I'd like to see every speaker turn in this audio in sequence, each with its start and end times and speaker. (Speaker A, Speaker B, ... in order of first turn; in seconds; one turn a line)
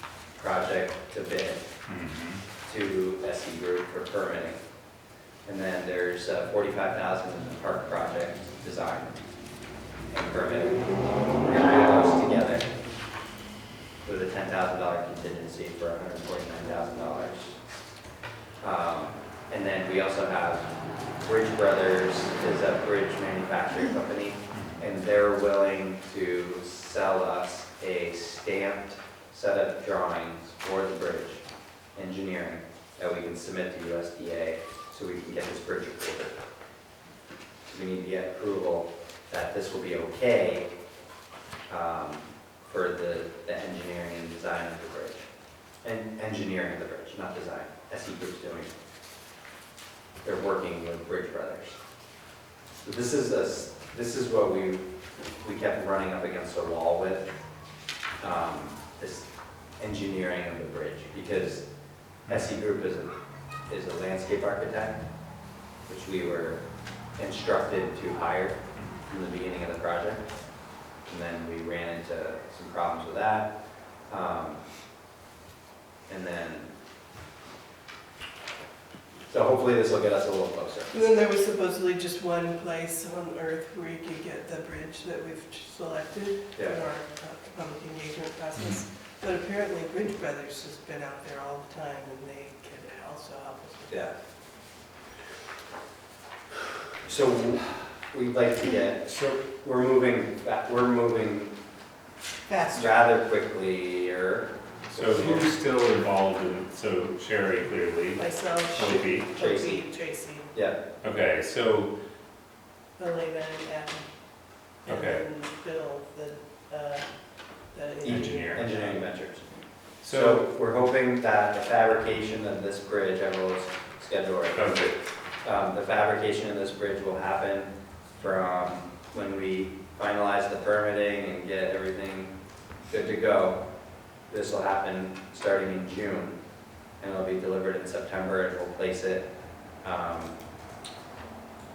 Speaker A: 0.4-1.7
Speaker B: 1.9-2.4
Speaker A: 2.6-4.6
Speaker A: 5.5-9.2
Speaker A: 10.1-10.9
Speaker A: 11.4-12.7
Speaker A: 14.1-17.6
Speaker A: 18.6-20.7
Speaker A: 21.2-31.4
Speaker B: 24.5-24.8
Speaker A: 31.9-36.4
Speaker A: 37.7-40.7
Speaker A: 41.7-45.3
Speaker A: 45.8-48.7
Speaker A: 50.2-51.8
Speaker A: 52.8-54.8
Speaker A: 55.4-57.3
Speaker A: 58.2-59.3
Speaker A: 59.8-61.6
Speaker A: 62.3-63.1
Speaker A: 63.7-65.0
Speaker A: 65.9-66.6
Speaker A: 67.2-70.2
Speaker A: 71.1-73.5
Speaker A: 74.1-74.6
Speaker A: 76.1-76.7
Speaker A: 79.3-80.9
Speaker C: 80.9-94.1
Speaker A: 86.5-86.8
Speaker B: 88.6-88.8
Speaker A: 97.0-101.5
Speaker C: 102.5-103.0
Speaker A: 102.7-105.5
Speaker B: 104.9-109.3
Speaker C: 108.2-110.5
Speaker A: 108.8-109.8
Speaker A: 110.5-110.8
Speaker B: 111.0-111.9
Speaker C: 113.0-114.1
Speaker B: 114.9-115.2
Speaker C: 114.9-117.1
Speaker C: 117.7-118.6
Speaker A: 118.0-119.5
Speaker B: 118.1-118.7
Speaker B: 120.0-120.5
Speaker A: 120.0-132.3
Speaker B: 124.5-125.0
Speaker A: 132.9-133.6
Speaker A: 134.3-136.4
Speaker A: 137.0-139.3
Speaker A: 139.8-140.3